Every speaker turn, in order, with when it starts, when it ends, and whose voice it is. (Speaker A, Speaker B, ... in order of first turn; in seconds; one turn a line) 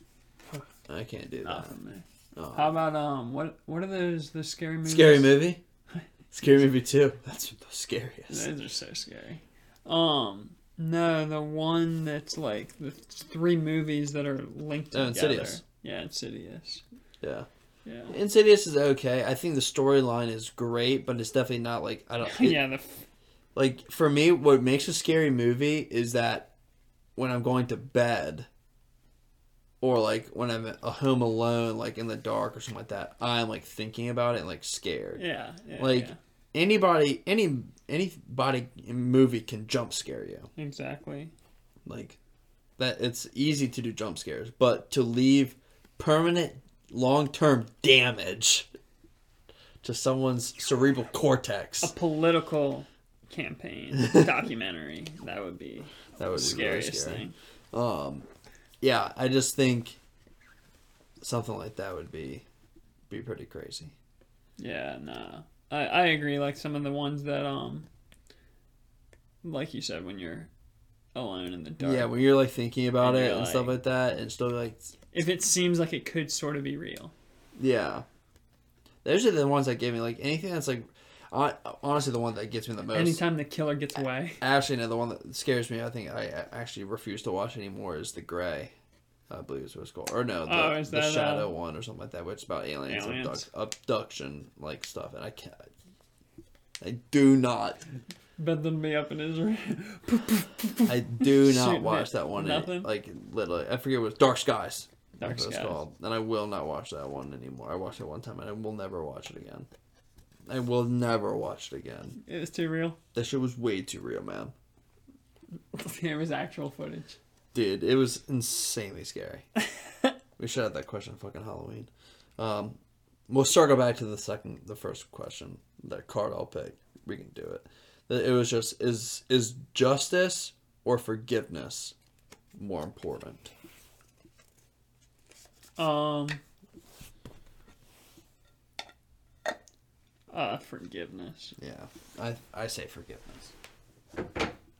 Speaker A: 0.8-1.7
Speaker B: 1.4-5.4
Speaker A: 2.4-2.8
Speaker A: 4.8-5.6
Speaker A: 6.3-8.5
Speaker B: 8.3-16.8
Speaker A: 14.9-15.6
Speaker A: 17.2-17.5
Speaker B: 17.9-18.2
Speaker A: 18.1-22.6
Speaker B: 22.2-23.1
Speaker A: 23.6-26.5
Speaker A: 27.2-28.5
Speaker A: 29.8-35.2
Speaker B: 35.2-36.2
Speaker A: 35.8-40.5
Speaker B: 40.6-41.3
Speaker A: 41.9-42.2
Speaker A: 42.8-48.7
Speaker A: 49.8-51.9
Speaker B: 51.8-57.3
Speaker A: 54.0-54.3
Speaker A: 56.2-58.3
Speaker A: 58.8-60.0
Speaker A: 61.2-62.5
Speaker A: 63.1-64.0
Speaker B: 64.6-67.9
Speaker B: 69.4-70.5
Speaker B: 71.1-72.1
Speaker A: 71.8-74.9
Speaker B: 73.0-73.8
Speaker B: 75.1-77.1
Speaker A: 77.6-78.0
Speaker A: 79.0-83.2
Speaker B: 82.9-84.4
Speaker A: 84.4-88.7
Speaker A: 89.3-95.7
Speaker B: 90.5-91.5
Speaker B: 92.9-93.5
Speaker A: 96.8-97.8
Speaker B: 98.4-102.9
Speaker A: 100.9-109.7
Speaker B: 105.2-105.8
Speaker A: 110.5-112.2
Speaker B: 112.2-113.0
Speaker A: 113.1-114.5
Speaker B: 115.7-117.2
Speaker A: 117.5-119.5
Speaker A: 120.4-122.8
Speaker A: 123.3-131.9
Speaker A: 132.6-133.5
Speaker B: 135.8-136.4
Speaker B: 140.3-141.6
Speaker A: 141.6-143.5